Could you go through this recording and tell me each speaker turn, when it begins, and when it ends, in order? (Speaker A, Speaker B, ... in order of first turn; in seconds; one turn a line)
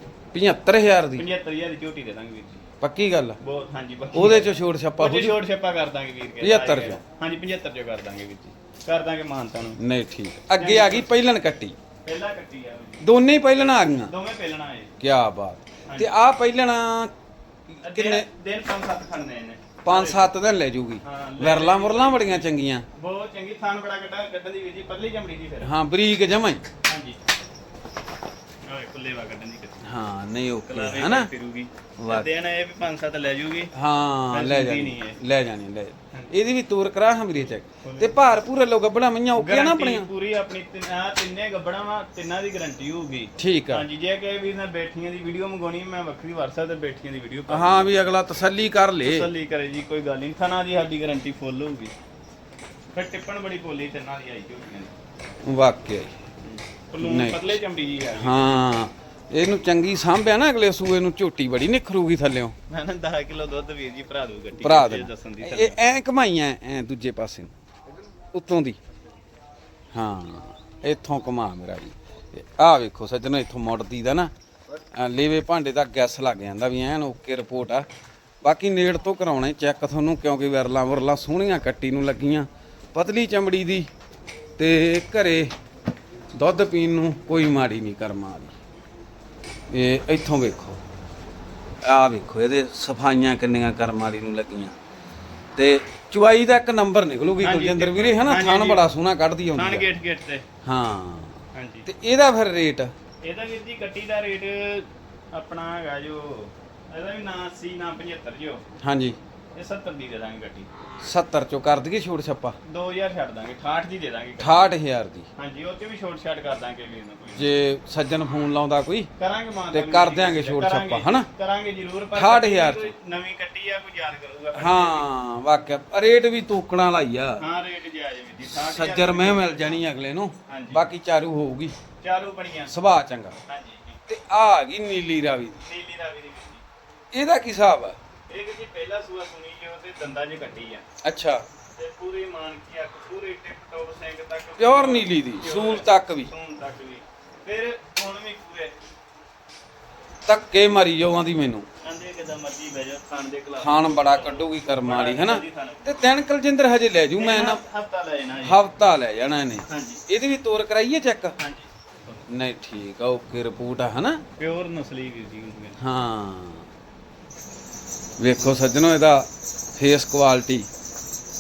Speaker A: 0.3-1.2
Speaker B: 1.2-2.6
Speaker A: 2.8-3.4
Speaker B: 3.4-9.8
Speaker A: 4.1-5.4
Speaker A: 6.4-7.0
Speaker A: 9.8-11.8
Speaker B: 10.6-11.1
Speaker B: 12.0-13.1
Speaker A: 13.0-14.1
Speaker B: 13.9-14.9
Speaker A: 15.0-17.1
Speaker B: 15.9-16.1
Speaker A: 17.8-18.3
Speaker B: 17.8-20.3
Speaker A: 19.8-22.9
Speaker B: 21.0-25.7
Speaker A: 25.6-26.6
Speaker B: 26.9-27.2
Speaker B: 28.6-29.8
Speaker A: 29.8-31.3
Speaker B: 30.7-33.7
Speaker A: 32.0-32.3
Speaker A: 33.7-40.1
Speaker B: 34.3-35.2
Speaker B: 37.8-38.2
Speaker B: 39.4-47.9
Speaker A: 43.4-43.9
Speaker A: 47.5-49.3
Speaker B: 49.0-51.9
Speaker B: 52.9-54.9
Speaker A: 55.4-56.2
Speaker B: 56.4-58.4
Speaker A: 57.0-57.6
Speaker A: 58.2-62.5
Speaker B: 62.7-65.8
Speaker A: 64.6-67.5
Speaker A: 68.3-68.8
Speaker A: 69.9-74.3
Speaker A: 74.9-77.9
Speaker A: 78.4-83.9
Speaker A: 84.6-85.5
Speaker A: 86.3-88.5
Speaker A: 89.7-90.8
Speaker A: 91.8-94.8
Speaker A: 95.6-99.8
Speaker B: 97.4-98.8
Speaker B: 99.5-100.4
Speaker A: 100.7-102.9
Speaker B: 101.5-101.9
Speaker B: 103.2-108.6
Speaker A: 108.8-109.2
Speaker B: 109.5-110.7
Speaker A: 111.0-112.5
Speaker B: 112.7-114.7
Speaker A: 114.4-115.3
Speaker B: 115.3-117.5
Speaker A: 117.3-119.1
Speaker B: 119.2-125.1
Speaker A: 119.7-121.3
Speaker A: 122.2-122.9
Speaker A: 124.5-127.4
Speaker B: 127.4-129.8
Speaker A: 128.4-131.7
Speaker B: 130.5-130.8
Speaker B: 132.0-132.7
Speaker A: 132.7-133.4
Speaker B: 133.5-134.0
Speaker A: 134.1-135.6
Speaker B: 135.6-136.6
Speaker A: 137.1-138.0
Speaker B: 138.3-140.8
Speaker A: 141.0-141.4
Speaker B: 141.8-148.7
Speaker A: 144.6-146.3
Speaker A: 150.3-151.7
Speaker B: 151.8-156.0
Speaker A: 153.6-157.6
Speaker B: 157.2-158.6
Speaker A: 158.4-161.3
Speaker B: 159.7-160.0
Speaker B: 161.4-162.2
Speaker A: 162.3-164.2
Speaker B: 164.4-165.8
Speaker A: 165.8-166.7
Speaker A: 168.2-170.7